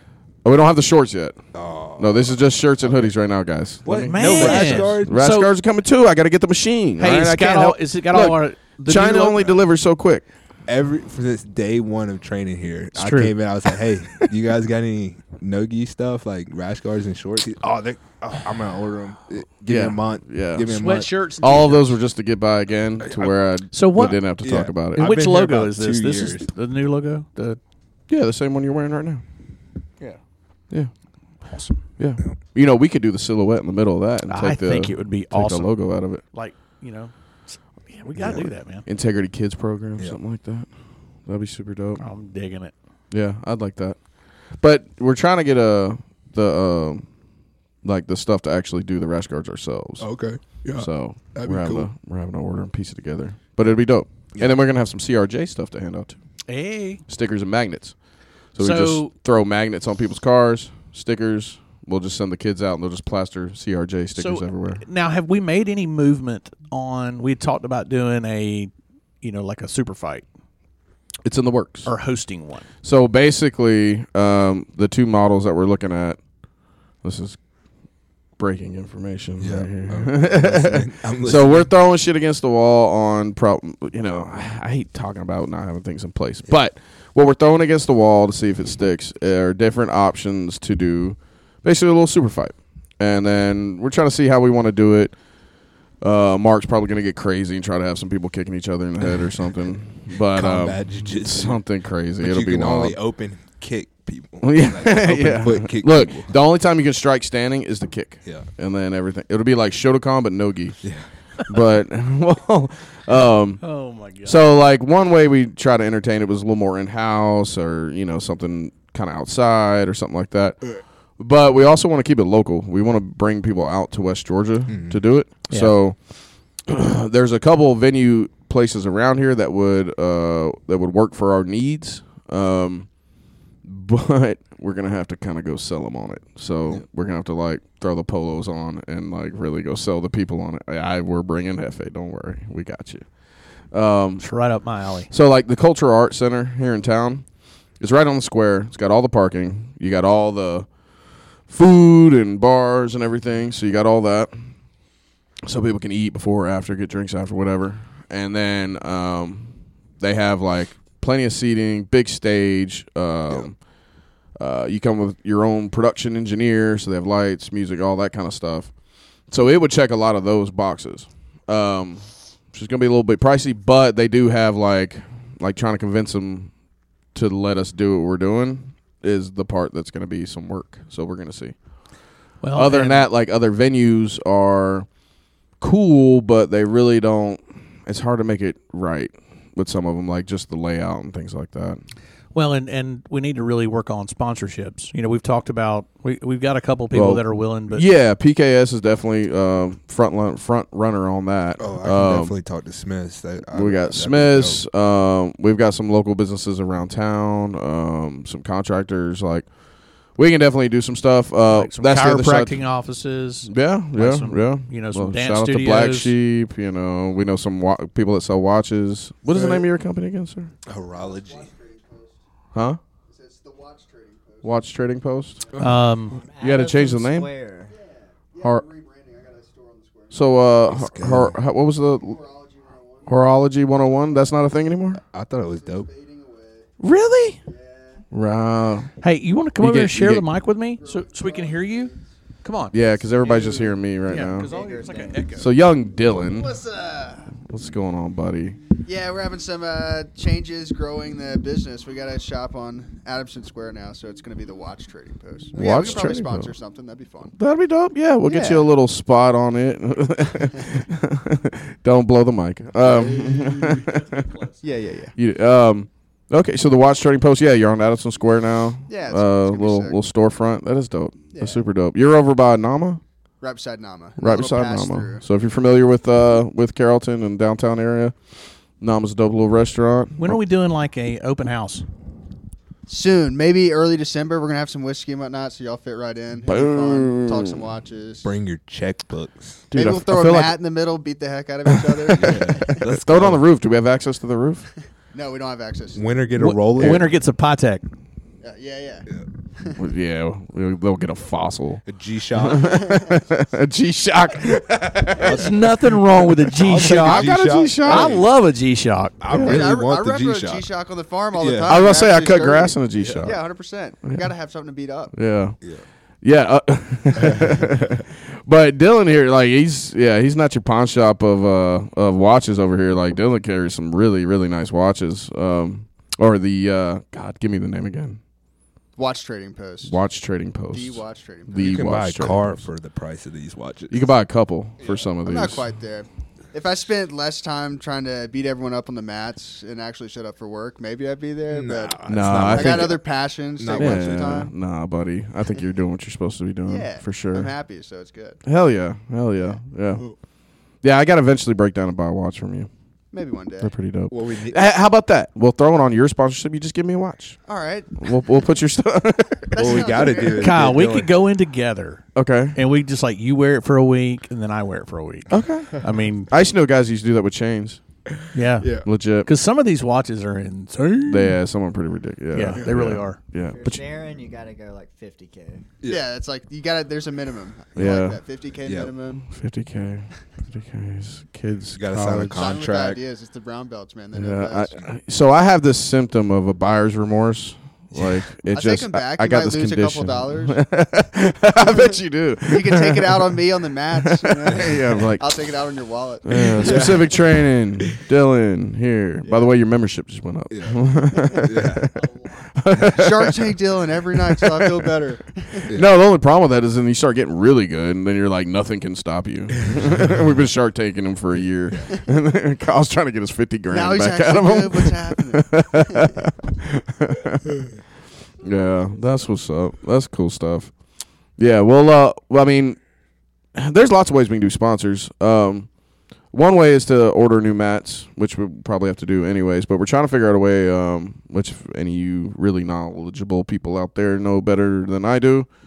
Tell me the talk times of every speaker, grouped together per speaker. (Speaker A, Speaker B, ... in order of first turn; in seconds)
Speaker A: 0.4-1.4, 2.0-10.2, 19.7-20.8, 21.4-25.1, 28.1-29.2, 31.9-36.2, 38.2-40.7, 41.2-42.0, 43.1-47.1, 47.8-56.2, 57.1-58.0, 58.5-64.8, 71.2-71.9, 72.8-76.2, 77.0-77.4, 78.4-95.2, 96.0-103.0, 104.4-110.8, 111.5-113.6, 114.2-126.1, 126.6-133.0, 133.6-143.1, 143.7-144.2, 145.1-147.2, 147.8-150.7, 151.5-154.3, 155.4-163.7, 164.3-168.7, 169.3-176.5, 177.1-181.6, 182.5-184.9, 185.6-191.8, 196.9-202.3, 203.5-209.5, 210.1-212.6, 213.4-220.5, 222.5-222.8, 224.4-225.5, 226.4-227.3, 230.1-232.2, 233.1-235.0, 236.8-237.4, 238.1-238.9, 239.6-240.3, 242.7-244.5, 245.3-246.6, 247.5-248.6, 255.5-256.5, 257.4-264.3, 265.1-273.0, 274.2-280.4, 286.4-287.6, 289.7-290.6, 291.7-294.7, 299.8-301.8, 302.4-305.5, 306.8-308.2, 311.7-313.4, 314.0-314.3, 315.1-315.6, 316.2-328.2, 329.8-332.6, 333.9-335.6, 342.1-343.0, 343.7-347.5, 348.4-350.0, 350.8-352.7, 353.6-357.4, 358.0-360.1, 362.1-362.6, 365.3-367.8, 368.8-369.3, 371.1-373.8, 377.8-378.2, 379.2-382.7, 384.1-393.4, 394.0-395.5, 396.2-403.5, 404.2-404.9, 405.7-417.6, 418.4-420.7, 421.4-422.8, 423.5-425.7, 426.3-435.5
Speaker B: 1.5-3.1, 3.8-5.2, 10.7-21.1, 23.0-23.3, 24.4-26.5, 50.0-51.9, 54.3-54.6, 79.4-81.7, 100.3-101.6, 102.2-106.3, 124.7-125.0, 201.6-204.6, 219.3-219.7, 220.7-221.5, 225.5-225.8, 230.7-231.3, 235.1-235.9, 288.2-289.7, 292.1-293.4, 295.9-297.1, 301.9-302.8, 305.1-305.6, 306.6-308.2, 309.2-310.6, 311.4-311.7, 313.0-313.3, 317.2-317.7, 331.6-334.1, 341.5-343.0, 343.6-344.5, 354.1-354.6, 359.6-361.1, 368.6-368.9, 378.6-378.9, 381.7-383.0, 387.9-388.2, 394.5-394.8, 396.5-397.4, 400.5-401.9, 409.8-410.1
Speaker C: 4.0-5.5, 7.0-9.6, 12.9-13.3, 20.7-22.0, 23.7-24.2, 24.9-27.6, 31.5-31.8, 34.3-38.8, 42.0-42.7, 56.5-57.0, 58.6-59.1, 64.2-68.7, 69.2-70.3, 71.8-72.7, 113.6-114.4, 144.2-145.1, 182.4-183.1, 192.3-197.8, 211.5-216.1, 225.6-226.2, 239.0-241.9, 242.4-242.8, 244.1-245.5, 280.2-281.8, 296.4-297.8, 305.2-309.4, 360.4-362.0, 362.5-366.3, 368.3-368.7, 369.2-371.4, 372.3-373.2
Speaker D: 220.7-222.2, 223.1-224.8, 227.7-230.5, 231.8-233.2, 235.5-236.7, 237.4-238.0, 240.7-242.1, 242.7-243.7, 246.1-247.3, 248.8-257.3, 258.2-258.6, 262.9-263.8, 264.6-265.1, 268.9-270.0, 271.3-271.6, 273.4-275.2, 282.9-288.3, 289.7-292.8, 295.1-296.1, 298.4-299.8, 302.6-303.1, 309.3-315.1, 329.0-330.0, 330.7-331.8, 334.9-344.5, 346.6-348.4, 353.1-353.7, 357.4-358.1, 359.5-360.5, 375.8-379.2, 382.3-384.8, 388.5-390.7, 391.6-397.0, 402.9-405.7, 413.7-416.2
Speaker E: 226.1-227.7, 243.2-245.3, 373.5-375.6